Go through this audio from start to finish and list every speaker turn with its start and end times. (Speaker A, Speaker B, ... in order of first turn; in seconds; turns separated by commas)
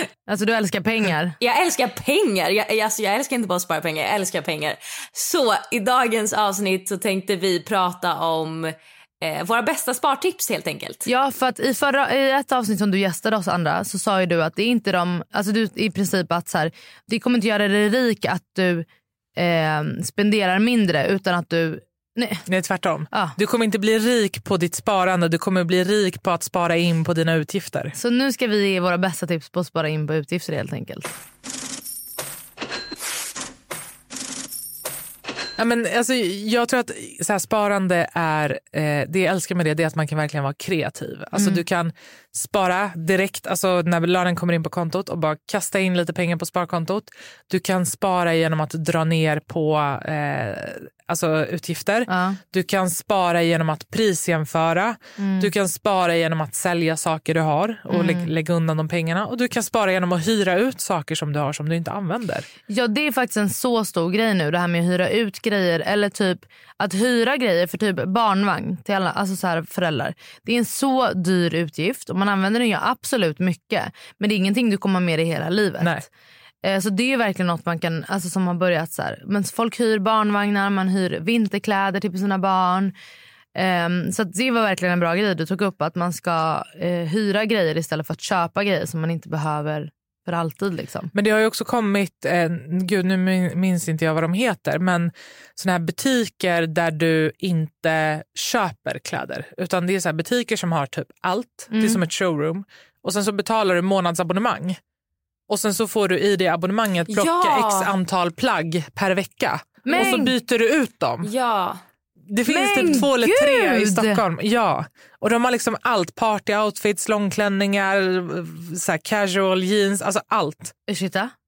Speaker A: 0.3-1.4, Speaker B: 1.4-11.1, Speaker A: 11.1-22.4, Speaker C: 22.5-27.9, Speaker A: 23.1-23.4, Speaker A: 27.9-31.1, Speaker C: 35.6-62.5, Speaker A: 41.3-41.6, Speaker A: 52.1-52.4, Speaker A: 55.2-55.5, Speaker A: 57.9-58.3, Speaker A: 62.7-76.1, Speaker C: 75.8-76.0, Speaker A: 76.6-82.9, Speaker A: 83.5-91.1, Speaker C: 91.1-104.8, Speaker A: 101.7-102.0, Speaker C: 105.5-111.3, Speaker B: 107.1-107.9, Speaker A: 109.8-110.3, Speaker B: 111.2-111.8, Speaker C: 112.3-120.7, Speaker A: 112.4-114.2, Speaker A: 120.9-121.3